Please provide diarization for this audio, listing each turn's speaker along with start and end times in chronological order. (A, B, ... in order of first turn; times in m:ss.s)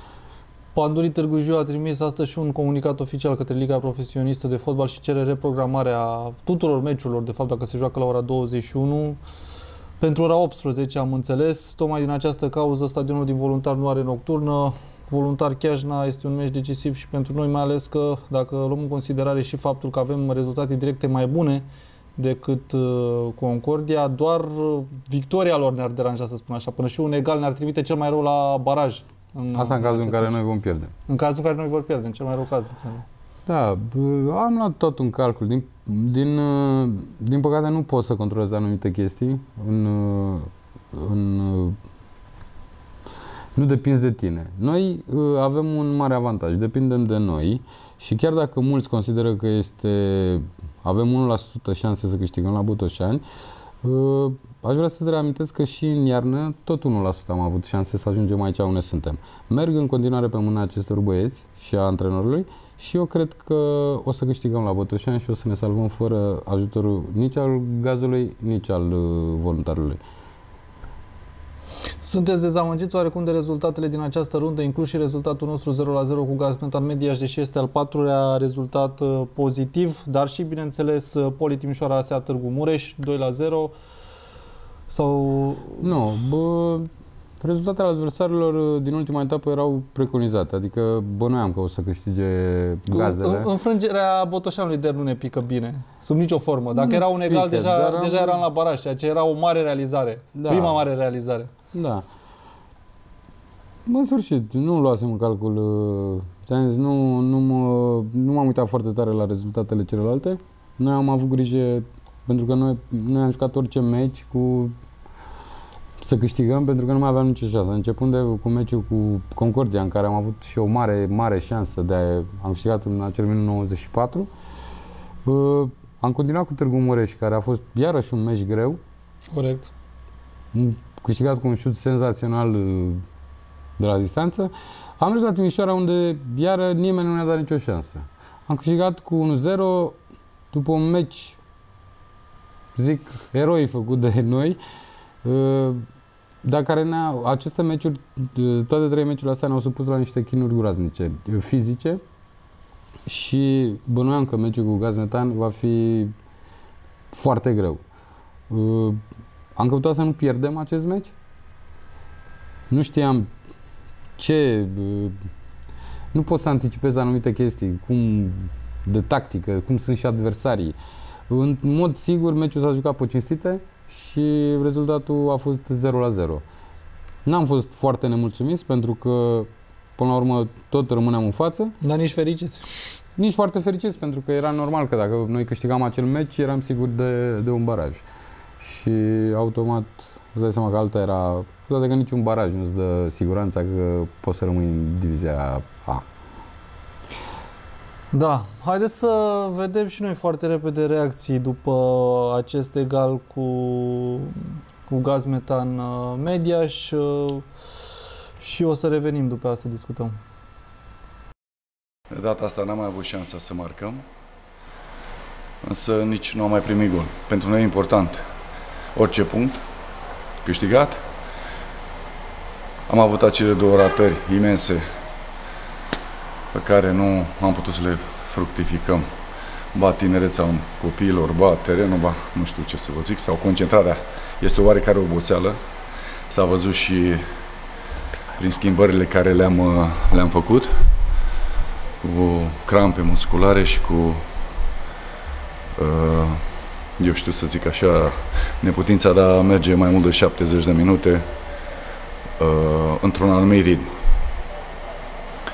0:00.8-0:09.2 A
0:10.0-0:30.4 A
0:29.5-0:30.9 B
0:31.1-0:33.0 A
0:33.4-0:41.8 B
0:43.5-0:53.2 B
0:53.8-1:10.0 B
1:12.0-1:23.8 A
1:24.9-1:25.9 A
1:25.8-1:26.9 B
1:27.4-1:33.5 B
1:32.9-1:41.5 A
1:36.8-1:38.4 B
1:40.3-1:40.8 B
1:41.7-1:42.0 B
1:43.8-1:54.8 B
1:56.0-2:04.3 B
2:05.2-2:08.8 B
2:09.3-2:09.7 A
2:10.5-2:13.0 B
2:13.8-2:20.0 B
2:20.5-2:21.4 B
2:22.8-2:24.6 B
2:25.2-2:25.8 B
2:26.4-2:32.0 B
2:33.0-2:36.1 B
2:37.1-2:37.8 B
2:38.5-2:39.0 B
2:39.5-2:41.1 B
2:42.7-2:43.3 B
2:44.2-2:45.2 B
2:46.1-2:50.8 B
2:51.3-2:56.4 B
2:57.2-3:01.7 B
3:01.8-3:03.0 A
3:03.2-3:08.0 B
3:08.6-3:16.0 B
3:18.1-3:27.6 A
3:28.4-3:30.1 A
3:32.1-3:34.0 C
3:35.6-3:38.3 C
3:38.9-3:39.7 C
3:40.4-3:41.1 C
3:42.9-3:44.9 C
3:46.5-3:55.7 C
3:56.2-3:57.4 C
3:58.4-4:01.1 C
4:02.0-4:04.6 C
4:05.8-4:11.7 C
4:12.4-4:14.2 C